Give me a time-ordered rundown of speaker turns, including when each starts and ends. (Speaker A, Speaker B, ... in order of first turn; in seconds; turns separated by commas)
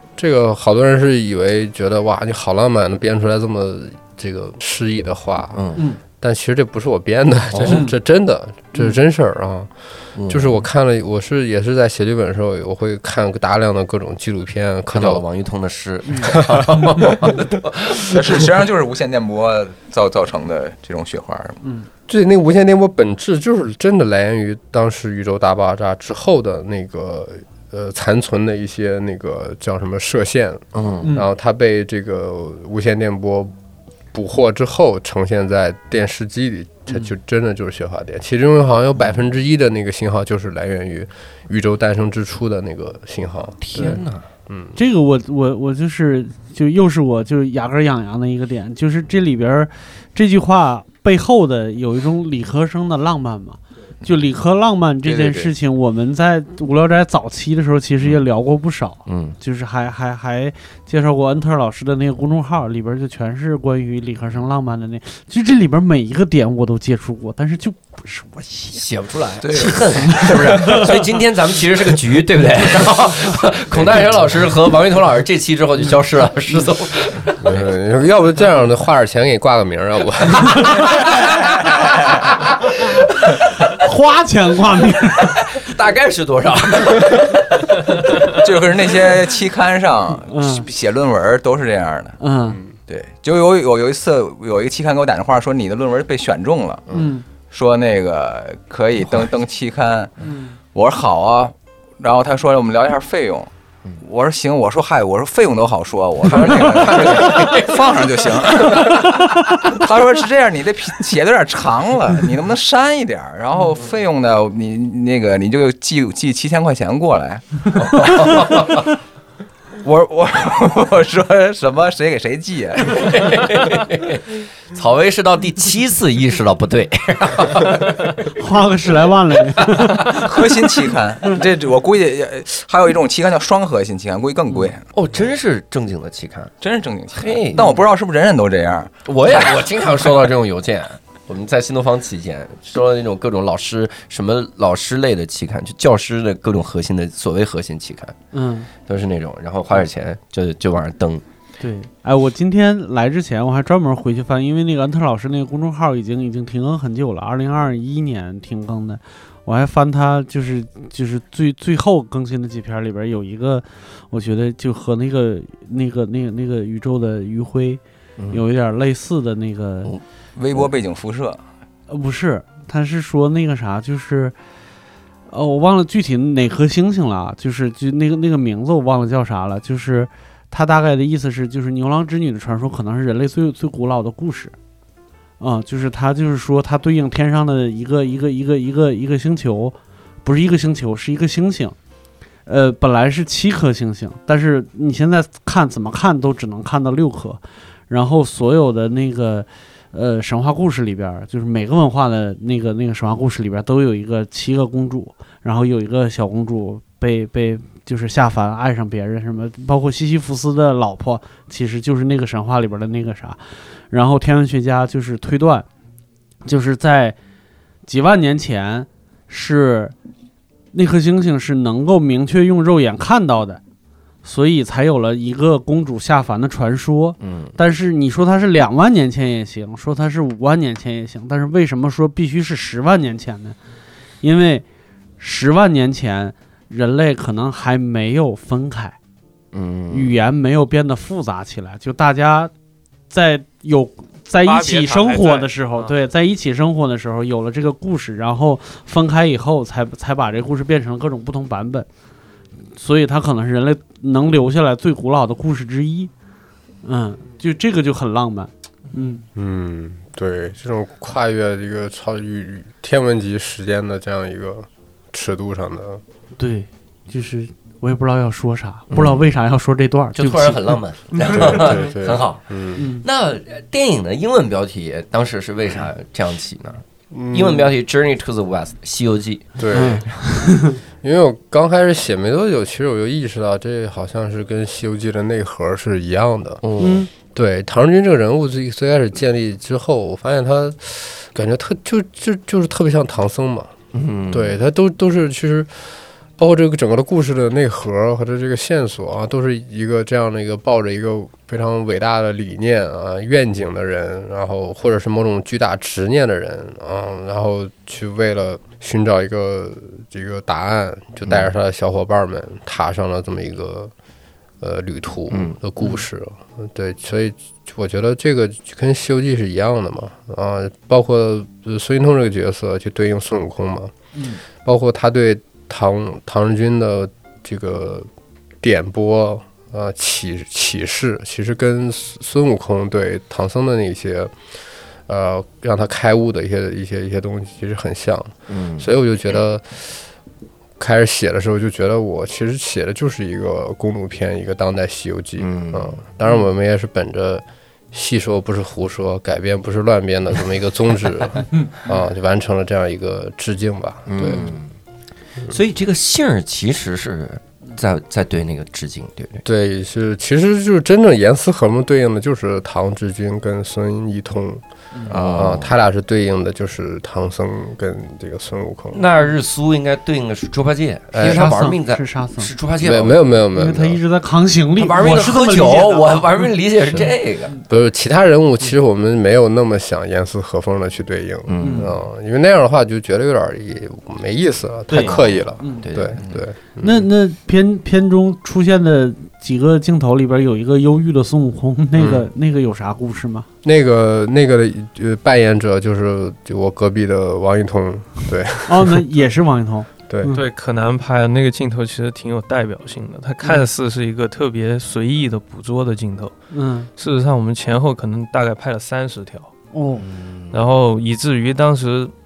Speaker A: 0.2-15.2, Speaker B: 5.5-5.8, Speaker B: 7.5-7.9, Speaker C: 7.7-8.0, Speaker B: 10.2-10.6, Speaker B: 14.9-18.2, Speaker A: 16.2-17.4, Speaker D: 18.1-21.6, Speaker C: 21.6-21.9, Speaker A: 22.1-33.5, Speaker B: 30.7-31.1, Speaker C: 31.0-31.3, Speaker A: 34.1-44.8, Speaker B: 43.6-44.3, Speaker C: 44.8-68.8, Speaker D: 55.0-55.5, Speaker B: 59.1-59.4, Speaker B: 68.7-77.6, Speaker D: 69.4-70.7, Speaker C: 70.0-71.0, Speaker A: 77.4-80.9, Speaker B: 81.1-83.7, Speaker C: 83.7-85.4, Speaker B: 85.2-88.5, Speaker D: 88.3-92.2, Speaker C: 90.2-90.7, Speaker C: 92.2-92.6, Speaker D: 92.9-96.9, Speaker C: 96.9-97.2, Speaker D: 97.5-100.1, Speaker C: 100.2-100.5, Speaker D: 100.7-118.7, Speaker B: 106.2-109.1, Speaker B: 117.7-118.9, Speaker D: 119.8-123.5, Speaker B: 122.9-128.3, Speaker C: 128.3-130.5, Speaker D: 130.1-134.9, Speaker B: 134.9-136.5, Speaker D: 136.6-139.7, Speaker B: 137.1-137.7, Speaker B: 139.1-148.2, Speaker C: 148.3-148.7, Speaker B: 148.8-151.2, Speaker C: 151.6-169.9, Speaker B: 168.2-168.4, Speaker D: 170.4-171.4, Speaker C: 171.9-174.3, Speaker C: 175.3-184.6, Speaker C: 185.4-191.8, Speaker C: 192.5-215.7, Speaker C: 216.4-217.2, Speaker C: 217.9-219.9, Speaker C: 220.7-223.6, Speaker C: 224.2-233.6, Speaker B: 227.2-227.6, Speaker C: 234.2-234.7, Speaker C: 235.2-239.0, Speaker B: 239.5-240.2, Speaker C: 239.9-242.5, Speaker C: 243.1-251.9, Speaker E: 244.4-246.0, Speaker C: 252.8-256.1, Speaker C: 256.8-259.2, Speaker A: 259.4-266.0, Speaker C: 266.4-270.8, Speaker B: 268.9-269.2, Speaker B: 270.1-280.1, Speaker A: 271.2-272.8, Speaker C: 272.8-273.0, Speaker A: 277.1-277.7, Speaker A: 279.6-280.1, Speaker C: 279.7-280.8, Speaker A: 281.0-293.7, Speaker B: 286.6-287.1, Speaker C: 286.8-287.1, Speaker B: 293.9-294.6, Speaker A: 294.3-313.9, Speaker A: 314.6-323.9, Speaker B: 315.3-315.6, Speaker C: 324.1-324.4, Speaker A: 324.6-328.1, Speaker A: 328.6-334.3, Speaker A: 335.1-340.1, Speaker B: 338.5-338.9, Speaker A: 340.8-354.6, Speaker B: 345.4-346.0, Speaker B: 354.1-354.7, Speaker B: 355.5-359.4, Speaker A: 359.4-369.0, Speaker B: 365.1-365.7, Speaker B: 368.9-373.2, Speaker A: 371.1-371.6, Speaker C: 371.2-372.5, Speaker A: 372.8-374.0, Speaker C: 373.5-376.4, Speaker B: 374.8-377.5, Speaker A: 377.7-387.1, Speaker B: 381.5-381.9, Speaker C: 381.6-381.9, Speaker C: 384.9-385.9, Speaker B: 384.9-386.4, Speaker C: 386.8-393.5, Speaker A: 392.0-392.2, Speaker A: 393.6-399.0, Speaker C: 398.7-400.4, Speaker E: 400.3-406.4, Speaker C: 406.5-406.9, Speaker E: 407.0-409.5, Speaker C: 409.7-410.1, Speaker B: 410.0-410.6, Speaker E: 410.5-412.1